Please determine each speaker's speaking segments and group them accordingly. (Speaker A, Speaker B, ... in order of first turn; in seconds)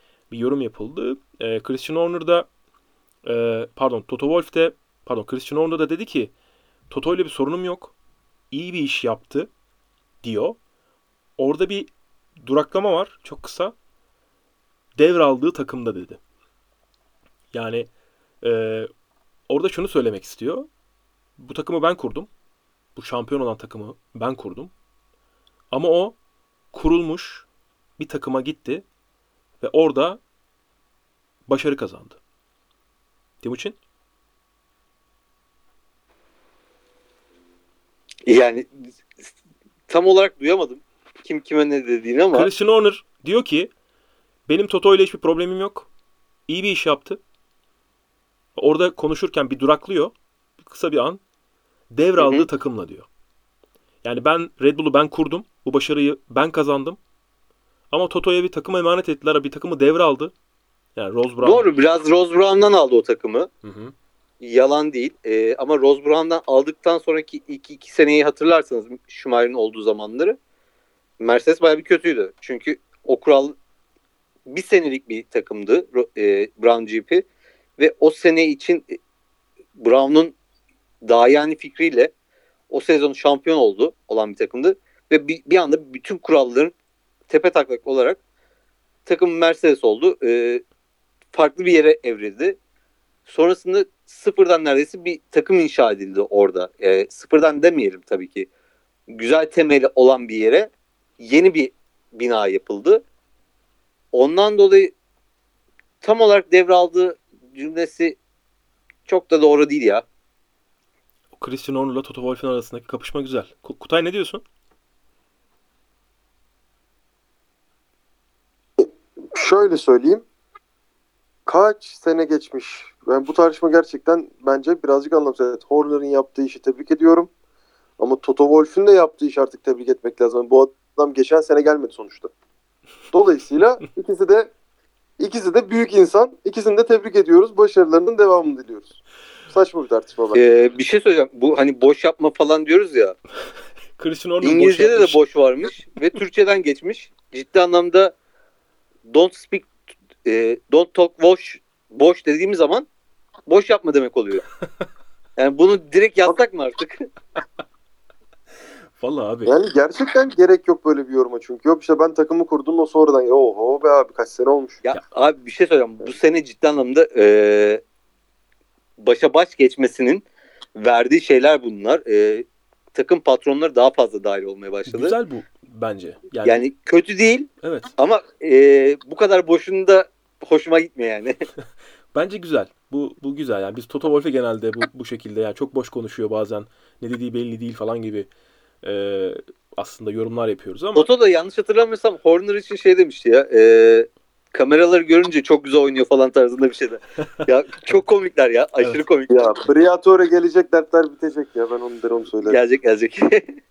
Speaker A: 0.3-2.5, 3.2-6.3, 6.9-7.9, 8.5-9.5, 10.2-10.6, 11.4-11.9, 12.4-13.7, 15.0-16.2, 17.5-17.9, 18.4-18.9, 19.5-20.7, 21.4-22.3, 22.9-24.7, 25.7-26.1, 26.7-27.4, 28.0-28.8, 29.6-30.2, 31.5-32.2, 33.4-33.8, 42.3-43.7, 44.5-45.9, 46.5-47.2, 48.5-51.2, 51.9-53.0, 54.0-57.0, 57.9-60.3, 61.0-61.7, 63.6-63.9, 111.4-114.4, 144.0-145.2, 159.0-159.5, 174.9-176.6, 177.6-177.9, 182.1-188.3, 188.8-191.1
Speaker B: 38.3-38.7, 39.9-42.5, 52.2-52.5, 61.4-63.5, 64.4-70.4, 71.2-73.5, 74.5-77.3, 77.8-79.0, 79.8-80.3, 81.0-82.1, 82.7-86.7, 87.3-88.2, 89.0-90.6, 91.3-92.6, 93.3-98.5, 99.1-103.0, 104.1-104.9, 106.0-108.2, 109.1-110.0, 140.3-143.2, 144.4-148.1, 149.1-149.7, 150.2-152.9, 153.5-154.4, 155.4-157.1, 164.8-167.8, 169.0-170.2, 170.8-175.1, 176.4-181.4, 190.9-199.6, 202.4-203.6
Speaker C: 118.8-120.2, 121.5-127.3, 128.0-132.3, 133.1-134.5, 135.2-140.4, 159.4-164.8, 199.3-202.6